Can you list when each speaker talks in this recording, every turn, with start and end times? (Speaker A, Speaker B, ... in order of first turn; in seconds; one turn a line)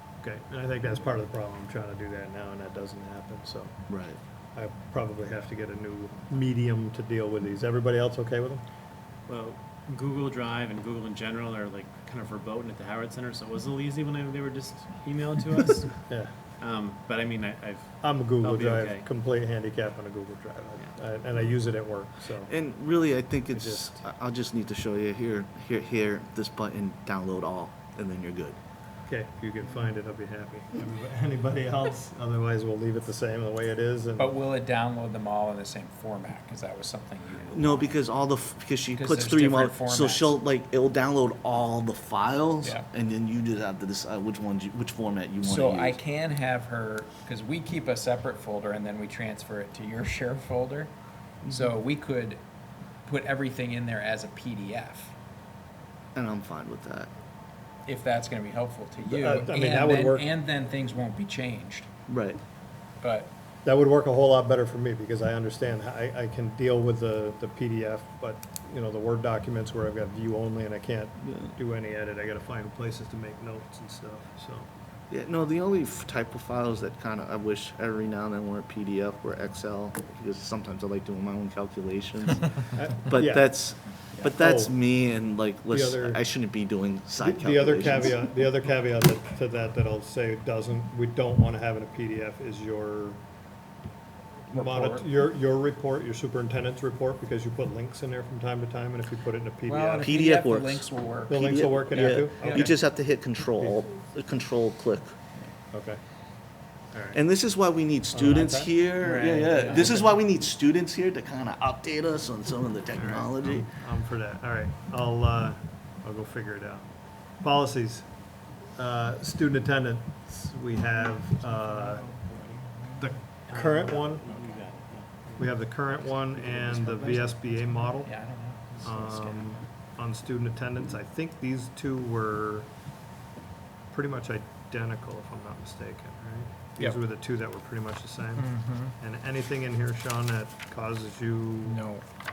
Speaker A: 0.2-3.7
Speaker B: 3.9-4.2
Speaker A: 4.5-8.6
Speaker C: 9.3-16.0
Speaker A: 16.1-16.3
Speaker C: 16.6-19.1
Speaker A: 18.0-22.5
Speaker B: 22.5-28.6
Speaker A: 23.5-24.0
Speaker A: 29.1-34.3
Speaker D: 34.2-38.0
Speaker B: 37.5-46.0
Speaker D: 38.9-40.3
Speaker D: 45.4-50.9
Speaker B: 51.4-51.7
Speaker D: 51.5-52.4
Speaker D: 53.0-55.1
Speaker B: 56.1-57.1
Speaker D: 57.9-61.9
Speaker A: 59.0-60.3
Speaker B: 62.1-62.4
Speaker D: 63.0-63.3
Speaker A: 63.6-74.7
Speaker B: 75.1-88.2
Speaker A: 82.8-83.5
Speaker A: 84.2-84.8
Speaker A: 85.7-86.2
Speaker A: 87.2-93.2
Speaker D: 94.5-95.0
Speaker A: 94.5-100.1
Speaker D: 99.7-102.7
Speaker B: 100.0-100.8
Speaker A: 101.3-102.8
Speaker B: 101.4-105.2
Speaker A: 103.6-103.8
Speaker A: 105.7-106.0
Speaker A: 106.9-107.2
Speaker B: 107.1-113.7
Speaker A: 108.1-108.7
Speaker D: 109.0-110.1
Speaker A: 112.9-122.0
Speaker D: 122.8-124.5
Speaker A: 123.0-124.2
Speaker C: 124.0-125.4
Speaker A: 125.3-128.3
Speaker D: 127.9-129.6
Speaker A: 128.8-132.7
Speaker A: 133.9-141.8
Speaker D: 138.3-138.9
Speaker D: 141.7-142.0